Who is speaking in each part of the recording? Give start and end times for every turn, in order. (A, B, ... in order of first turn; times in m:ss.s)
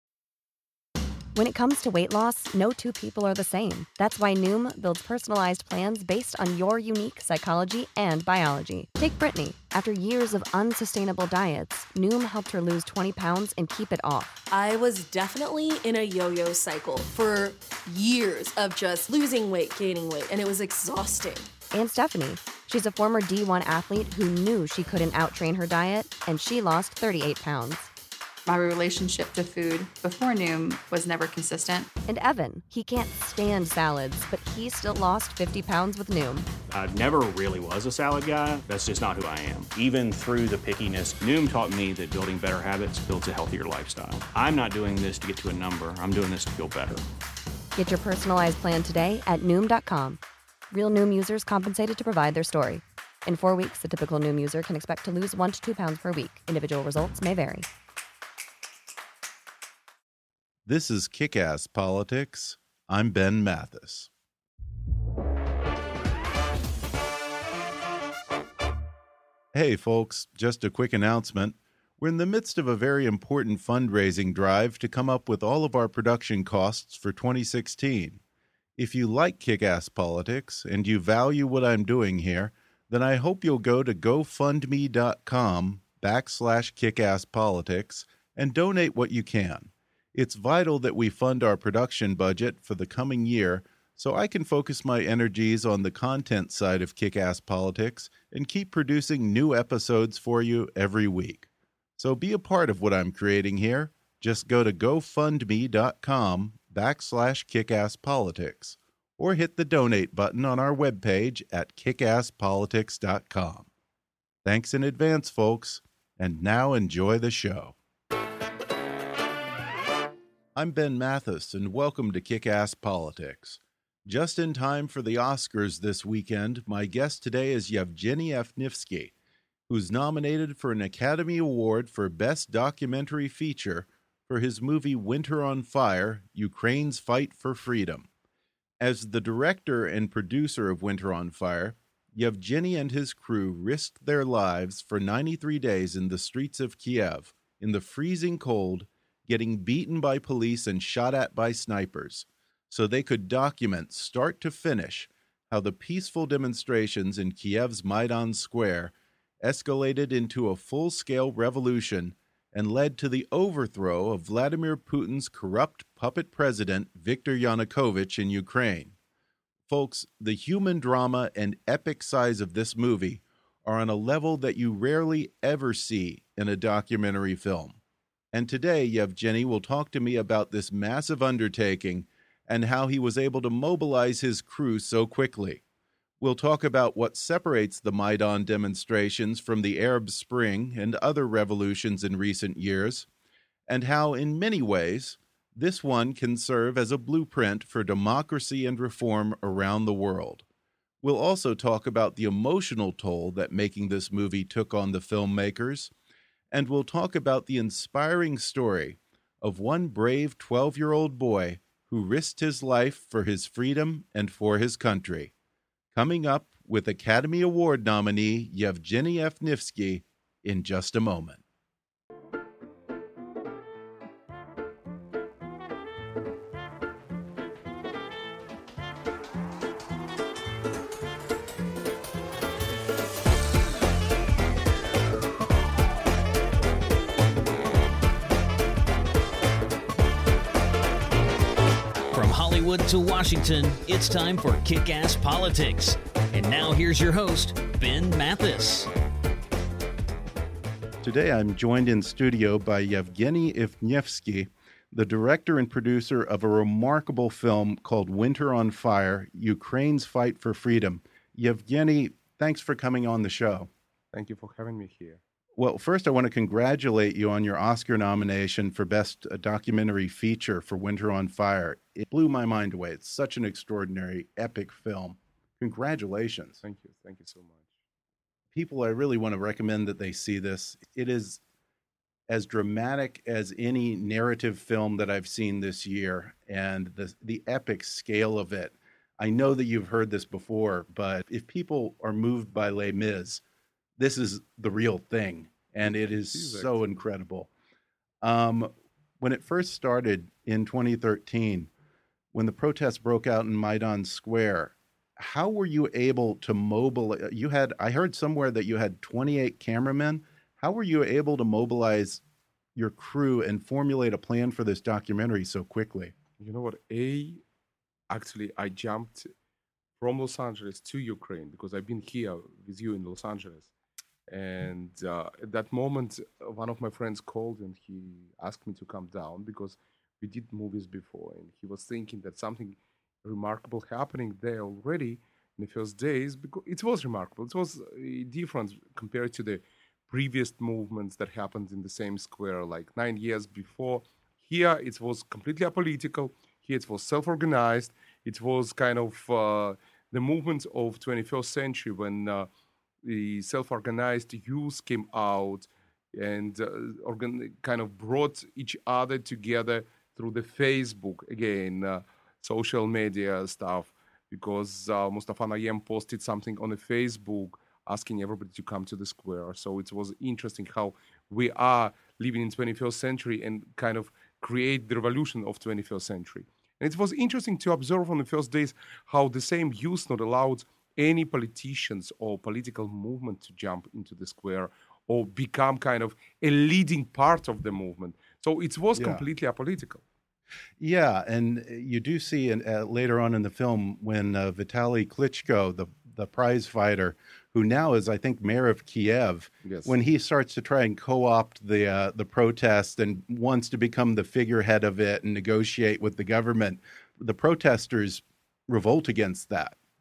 0:01.4-0:14.4 A
0:14.5-0:21.5 B
0:21.7-0:27.9 A
0:28.5-0:31.9 C
0:32.1-0:36.5 A
0:36.7-0:47.0 D
0:47.8-0:50.2 A
0:50.7-0:57.7 A
1:00.7-1:04.1 E
1:09.5-1:18.2 E
1:18.8-1:53.7 E
1:54.4-1:57.8 E
2:00.6-2:09.1 E
2:09.7-2:18.1 E
2:18.8-2:49.0 E
2:49.7-2:57.8 E
2:58.3-3:05.6 E
3:06.2-3:13.1 E
3:13.7-3:20.4 E
3:21.0-3:25.9 E
3:26.5-3:35.3 E
3:35.9-3:41.4 E
4:02.1-4:08.9 F
4:11.0-4:23.7 E
4:24.1-4:25.2 G
4:25.6-4:36.6 E
4:36.6-4:37.7 G
4:38.5-4:41.4 E
4:42.3-4:53.4 E
4:54.0-4:57.5 E
4:55.8-4:57.0 G
4:58.2-5:01.7 E
5:02.3-5:12.2 E
5:12.8-5:16.2 E
5:16.4-5:17.4 G
5:18.1-5:19.3 G
5:20.0-5:23.7 G
5:24.3-5:52.5 G
5:53.0-6:30.0 G
6:29.0-6:29.2 E
6:30.8-6:49.8 E
6:39.6-6:39.9 G